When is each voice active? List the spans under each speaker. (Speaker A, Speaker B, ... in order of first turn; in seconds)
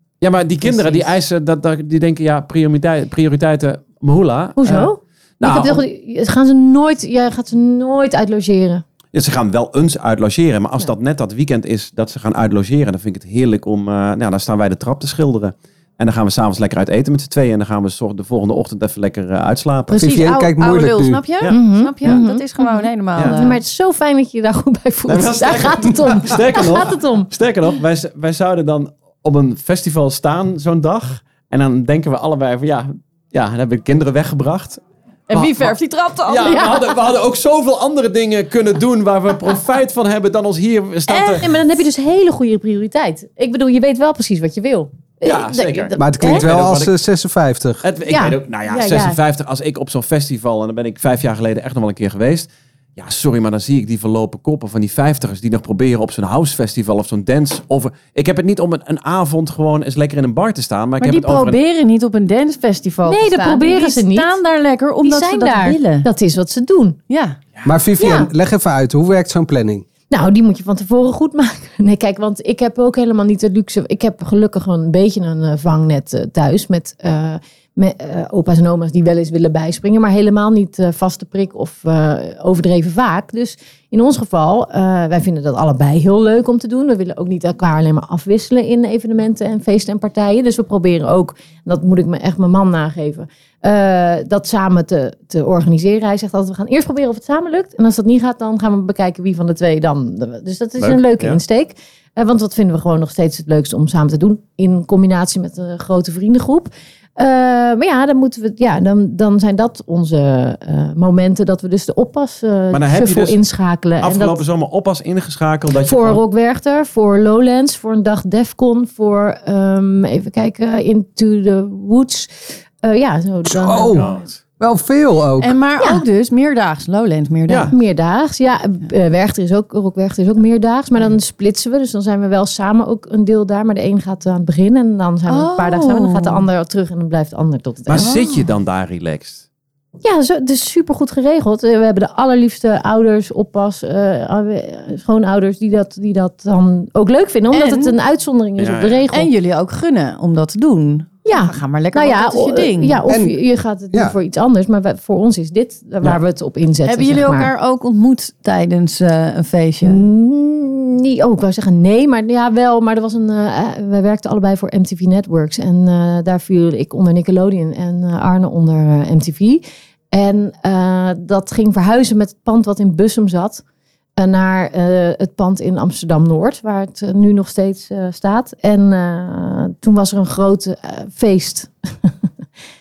Speaker A: 0.2-5.8, 9.1-20.0, 21.4-22.2, 23.1-23.4, 25.1-34.8, 35.3-35.7, 36.3-41.6, 45.2-46.9, 47.8-61.6, 100.8-101.4, 112.7-113.4, 114.0-116.2, 123.9-124.4, 127.5-127.7, 137.9-139.4, 148.6-149.1
Speaker B: 0.6-1.1, 4.6-8.8, 21.5-27.3, 36.4-36.8, 41.3-46.4, 48.1-49.1, 63.0-64.4, 65.0-67.0, 68.0-68.3, 70.1-114.4, 115.8-124.2, 127.7-138.1, 140.0-149.3, 151.2-157.5, 159.8-173.6, 174.2-182.1
Speaker C: 19.9-23.6, 35.3-36.8, 41.1-41.4, 61.0-66.1, 67.1-67.4, 125.4-127.7, 135.3-136.4, 138.0-138.4, 147.5-147.9, 149.1-153.0, 156.8-160.0
Speaker D: 19.9-21.2, 46.0-47.8, 67.6-69.8, 123.5-125.5, 153.1-153.4